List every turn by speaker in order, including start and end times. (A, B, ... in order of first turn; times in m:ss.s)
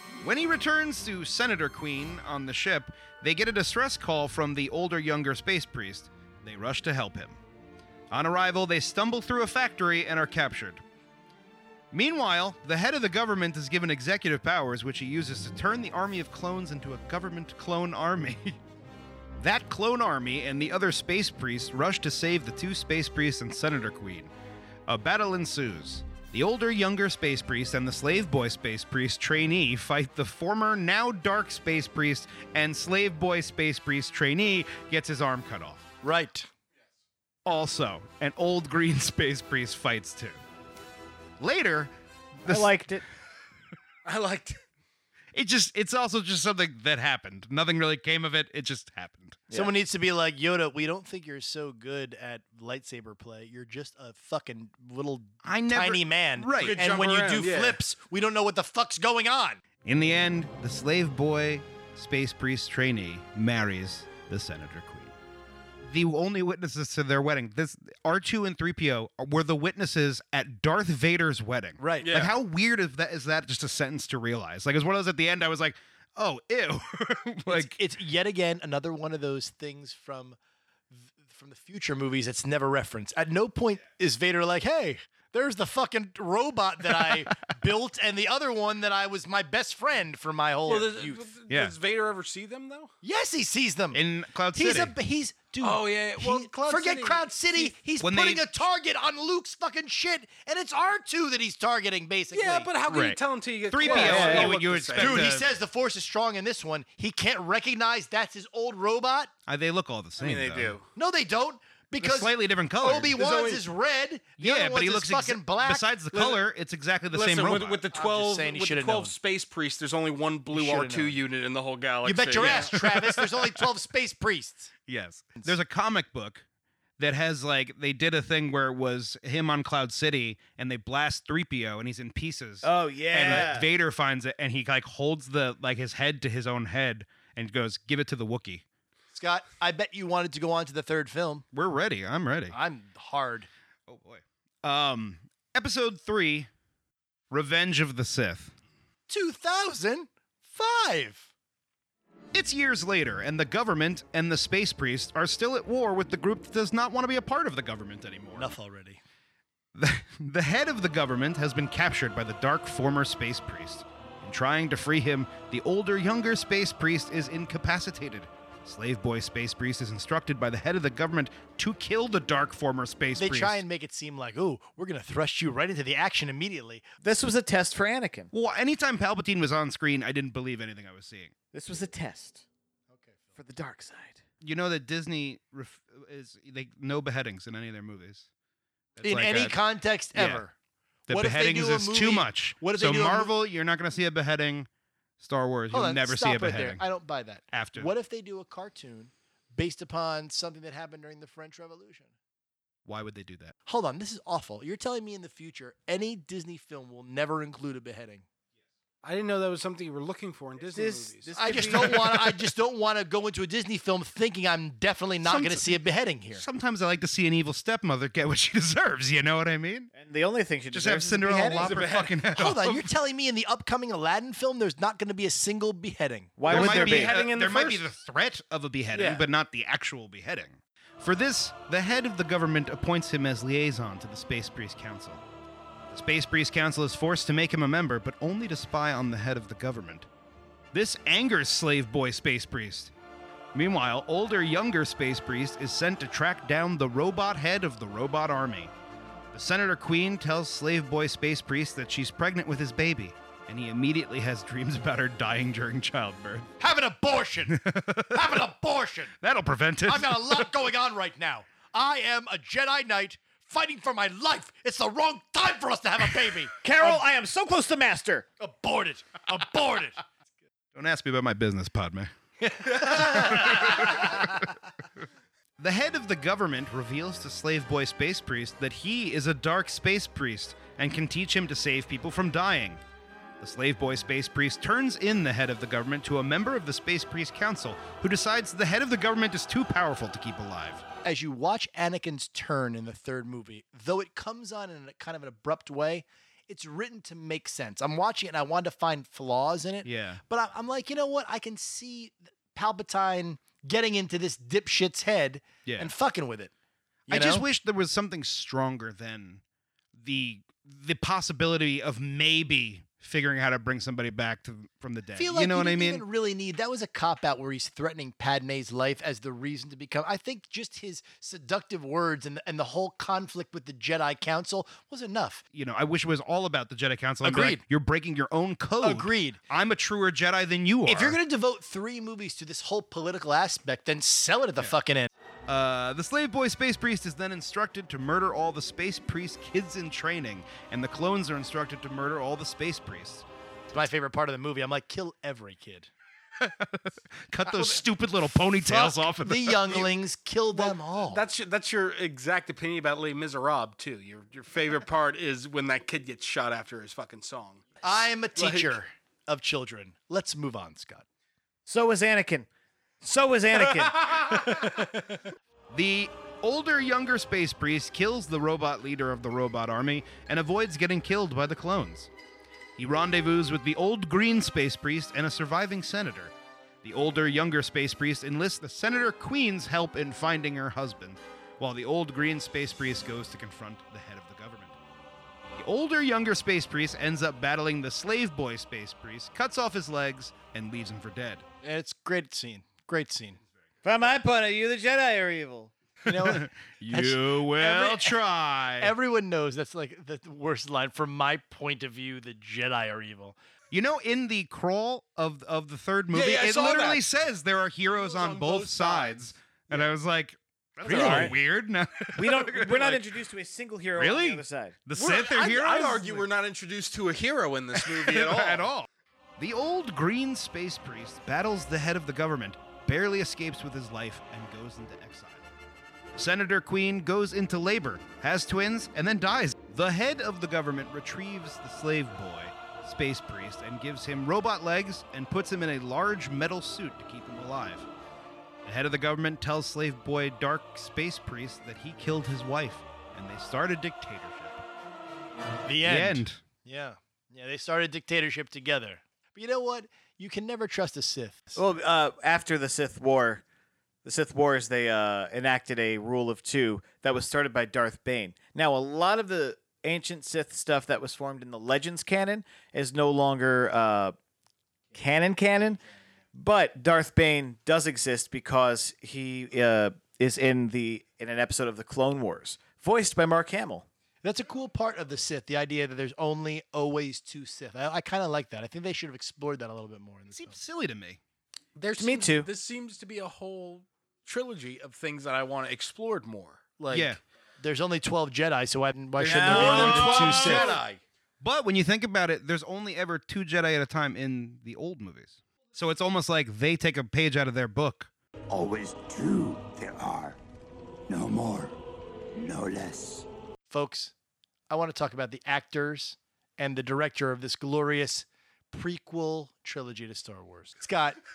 0:00.2-0:07.4 A
0:08.1-0:10.8 A
0:11.9-0:18.6 A
0:19.4-0:24.3 A
0:24.9-0:35.9 A
0:36.0-0:36.5 B
0:37.4-0:40.4 A
0:41.4-0:41.9 A
0:42.4-0:42.7 A
0:42.4-0:43.0 C
0:44.0-0:44.6 D
0:45.3-0:49.4 A
0:49.5-0:59.6 B
0:55.4-0:56.8 A
0:56.6-0:57.8 D
0:59.8-1:05.1 A
1:05.8-1:17.8 A
1:11.8-1:12.2 B
1:12.0-1:12.3 D
1:17.5-1:20.4 B
1:20.9-1:31.2 B
1:26.9-1:27.4 A
1:30.6-1:32.9 D
1:31.5-1:31.8 A
1:33.0-1:34.0 B
1:33.9-1:35.0 A
1:34.5-1:42.7 B
1:35.6-1:37.7 D
1:38.0-1:38.5 A
1:42.3-1:45.3 D
1:42.9-1:45.5 A
1:43.9-1:44.5 C
1:44.9-1:49.3 B
1:49.5-1:50.8 A
1:50.2-1:50.8 D
1:51.0-1:55.9 B
1:52.0-1:53.2 A
1:53.1-1:53.6 D
1:54.4-1:57.8 A
1:56.1-1:56.4 D
1:57.1-2:02.8 D
1:57.9-1:59.1 B
2:00.5-2:01.2 B
2:02.0-2:04.7 B
2:02.4-2:03.6 A
2:04.9-2:06.4 A
2:07.0-2:18.6 A
2:12.6-2:13.7 C
2:19.1-2:21.4 B
2:21.5-2:22.6 A
2:22.5-2:23.5 B
2:23.9-2:26.5 A
2:27.3-2:28.5 A
2:29.1-2:31.3 B
2:32.3-2:38.5 A
2:38.4-2:39.0 B
2:39.8-2:53.6 A
2:53.1-2:56.8 B
2:57.0-2:58.3 C
2:58.3-3:01.3 A
3:01.5-3:02.4 C
3:02.9-3:03.4 B
3:03.4-3:04.2 C
3:04.4-3:08.3 A
3:09.0-3:09.6 A
3:09.0-3:10.5 B
3:10.1-3:10.4 A
3:11.1-3:14.7 A
3:11.1-3:13.3 B
3:15.2-3:16.8 A
3:15.7-3:22.1 B
3:17.5-3:17.9 A
3:22.8-3:23.5 A
3:23.6-3:28.2 B
3:29.0-3:31.3 D
3:30.6-3:32.1 C
3:31.4-3:36.4 B
3:35.2-3:35.8 A
3:36.3-3:39.9 A
3:39.9-3:41.8 C
3:40.7-3:42.9 A
3:41.6-3:42.1 D
3:42.2-3:46.4 B
3:46.4-3:47.2 C
3:46.5-3:47.9 D
3:46.5-3:55.2 A
3:48.9-3:49.2 D
3:55.9-4:00.1 A
4:00.7-4:02.9 A
4:03.5-4:08.7 A
4:09.3-4:16.5 A
4:16.6-4:17.6 B
4:17.5-4:18.5 A
4:18.1-4:19.1 B
4:19.2-4:20.5 A
4:19.9-4:27.0 B
4:26.6-4:28.3 C
4:28.4-4:30.0 B
4:30.7-4:32.1 A
4:32.6-4:34.3 B
4:32.7-4:34.4 A
4:35.6-4:42.8 A
4:43.4-4:50.8 A
4:51.0-5:06.5 B
4:59.8-5:00.2 A
5:05.6-5:05.9 A
5:07.1-5:07.4 B
5:07.1-5:09.4 A
5:09.9-5:16.0 A
5:15.2-5:25.4 B
5:25.5-5:31.2 A
5:27.2-5:27.6 B
5:28.8-5:29.4 B
5:30.9-5:35.1 B
5:35.5-5:43.2 A
5:43.7-5:45.9 B
5:46.4-5:49.8 A
5:47.5-5:47.8 B
5:48.4-5:51.2 B
5:50.5-5:57.6 D
5:57.8-6:01.0 B
5:58.4-5:58.7 D
6:01.7-6:02.5 C
6:03.0-6:04.1 C
6:04.1-6:04.6 D
6:05.7-6:12.1 A
6:12.8-6:24.8 A
6:25.5-6:31.4 A
6:31.6-6:33.4 B
6:33.8-6:35.7 C
6:36.0-6:38.2 B
6:36.0-6:38.9 A
6:38.8-6:43.4 B
6:43.7-6:53.1 A
6:46.1-6:47.0 D
6:47.9-6:49.9 D
6:50.8-6:51.4 B
6:50.9-6:51.3 C
6:52.2-6:54.8 C
6:54.0-6:56.3 A
6:54.9-6:58.7 D
6:57.7-7:05.5 A
7:06.2-7:17.9 A
7:18.6-7:24.6 A
7:25.6-7:31.6 B
7:25.8-7:26.4 A
7:31.6-7:33.4 C
7:34.0-7:44.1 C
7:44.9-7:45.8 C
7:46.3-7:53.8 C
7:54.2-8:00.6 B
8:00.3-8:01.2 A
8:01.8-8:06.8 D
8:02.0-8:02.5 C
8:06.8-8:10.8 B
8:06.9-8:07.2 A
8:09.2-8:10.6 C
8:09.2-8:11.0 D
8:09.4-8:10.8 A
8:11.4-8:18.1 A
8:18.5-8:20.4 E
8:21.1-8:21.7 E
8:22.3-8:23.3 E
8:23.7-8:24.1 B
8:24.7-8:31.2 B